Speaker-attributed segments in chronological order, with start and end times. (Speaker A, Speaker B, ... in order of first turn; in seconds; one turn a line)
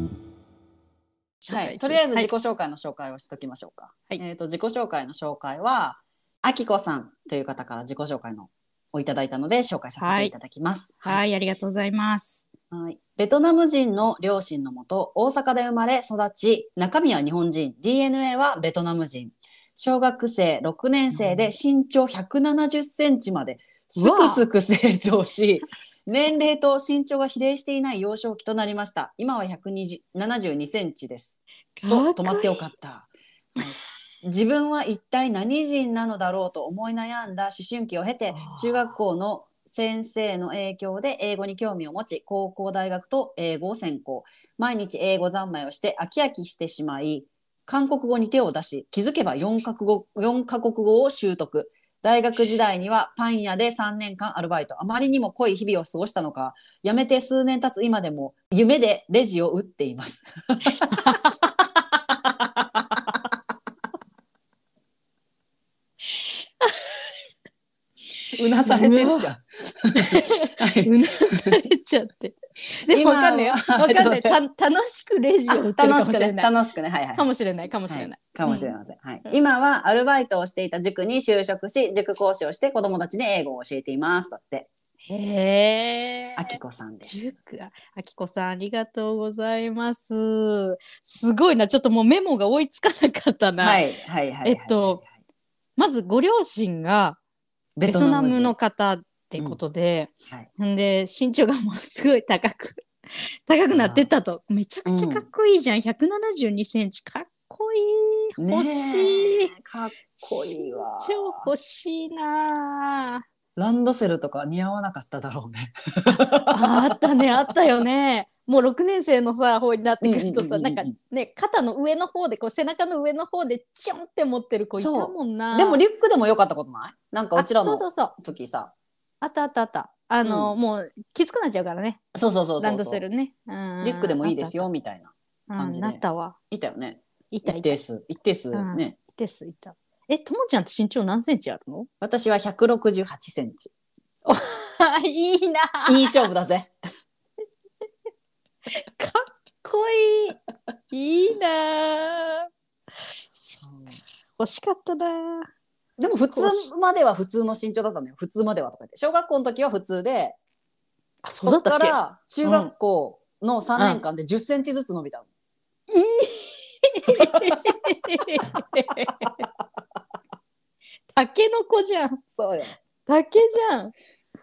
Speaker A: 1.4-2.3
Speaker B: 1.5-11.2
Speaker A: 10.0-10.3
Speaker A: 11.0-12.5
Speaker B: 12.7-61.0
Speaker A: 21.1-21.5
Speaker A: 24.0-24.4
Speaker A: 31.8-32.6
Speaker A: 38.3-38.9
Speaker A: 60.9-61.4
Speaker B: 68.3-71.5
Speaker A: 68.6-69.3
Speaker A: 69.9-76.5
Speaker B: 72.9-74.4
Speaker B: 75.5-77.3
Speaker A: 77.2-78.7
Speaker B: 77.9-84.7
Speaker A: 85.0-93.8
Speaker B: 86.4-87.2
Speaker B: 93.6-95.1
Speaker A: 94.4-95.0
Speaker A: 95.8-97.2
Speaker B: 97.8-98.5
Speaker A: 97.8-109.5
Speaker B: 103.7-104.1
Speaker B: 104.8-105.2
Speaker B: 108.4-111.5
Speaker A: 110.2-113.2
Speaker B: 113.5-117.2
Speaker A: 116.0-125.8
Speaker B: 120.0-120.9
Speaker B: 124.8-128.7
Speaker A: 127.3-128.2
Speaker A: 129.2-132.0
Speaker B: 130.2-130.5
Speaker B: 132.1-133.0
Speaker A: 132.6-134.7
Speaker B: 133.8-139.0
Speaker A: 135.5-136.3
Speaker A: 137.3-137.8
Speaker A: 138.5-141.9
Speaker B: 142.0-143.7
Speaker A: 144.2-146.3
Speaker B: 145.8-146.7
Speaker A: 148.7-150.4
Speaker A: 150.9-152.5
Speaker A: 153.4-153.6
Speaker A: 154.4-155.5
Speaker B: 156.0-160.4
Speaker A: 156.3-156.7
Speaker A: 161.2-162.7
Speaker B: 161.4-165.2
Speaker A: 165.9-169.4
Speaker B: 167.2-167.6
Speaker A: 171.1-172.2
Speaker B: 172.3-172.7
Speaker A: 173.1-173.9